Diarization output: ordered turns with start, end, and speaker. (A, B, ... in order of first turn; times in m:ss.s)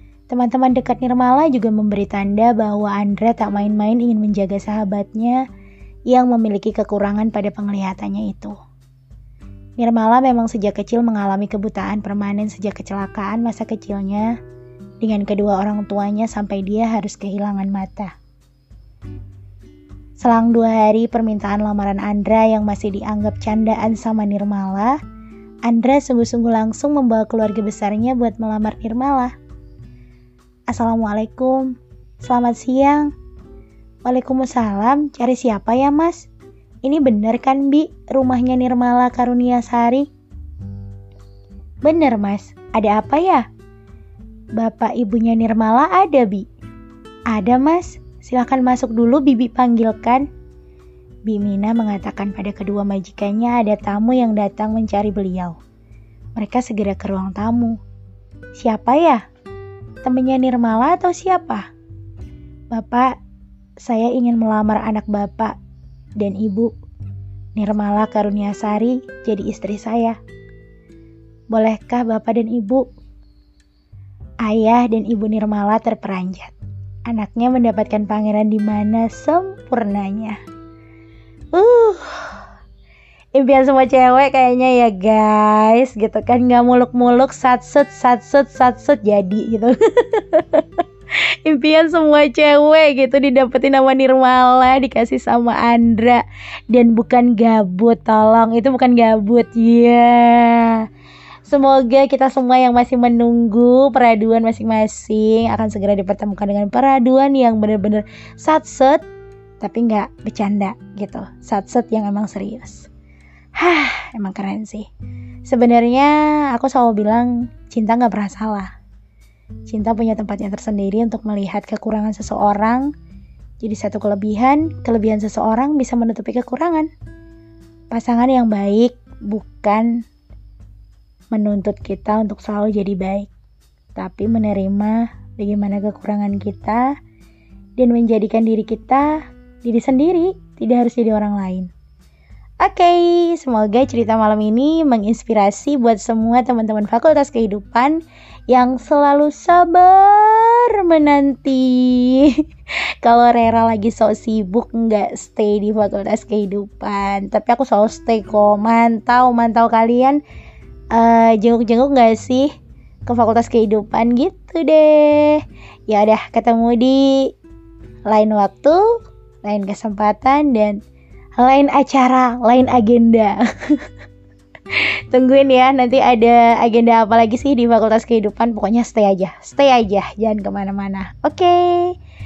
0:00.3-0:05.4 A
0:06.1-0:08.6 A
0:09.8-0:14.4 A
0:15.0-0:18.1 A
0:20.2-0:25.0 A
0:25.6-0:29.3 A
0:30.7-0:33.1 A
0:34.0-0:36.3 A
0:36.8-0:40.1 A
0:41.8-0:43.5 A
0:44.6-0:46.5 A
0:47.3-0:50.3 A
0:51.3-0:55.6 A
0:56.4-0:57.8 A
0:58.6-0:59.2 A
1:00.0-1:01.7 A
1:02.7-1:03.1 A
1:03.8-1:05.6 A
1:06.2-1:06.7 A
1:07.6-1:10.2 A
1:11.5-1:12.9 A
1:14.4-1:16.5 A
1:17.1-1:20.4 A
1:21.5-1:22.4 A
1:23.4-1:30.8 A
1:31.4-1:40.9 A
1:41.5-1:49.0 A
1:49.6-1:52.9 A
1:53.6-1:54.9 A
1:55.5-1:58.7 A
1:59.7-2:02.9 A
2:03.6-2:06.9 A
2:07.9-2:10.1 A
2:11.3-2:13.3 A
2:14.0-2:17.0 A
2:17.8-2:21.7 A
2:22.6-2:32.4 A
2:33.0-2:40.2 A
2:40.9-2:42.5 A
2:43.1-2:47.3 A
2:48.1-2:50.8 A
2:51.4-2:53.8 A
2:54.7-3:02.0 A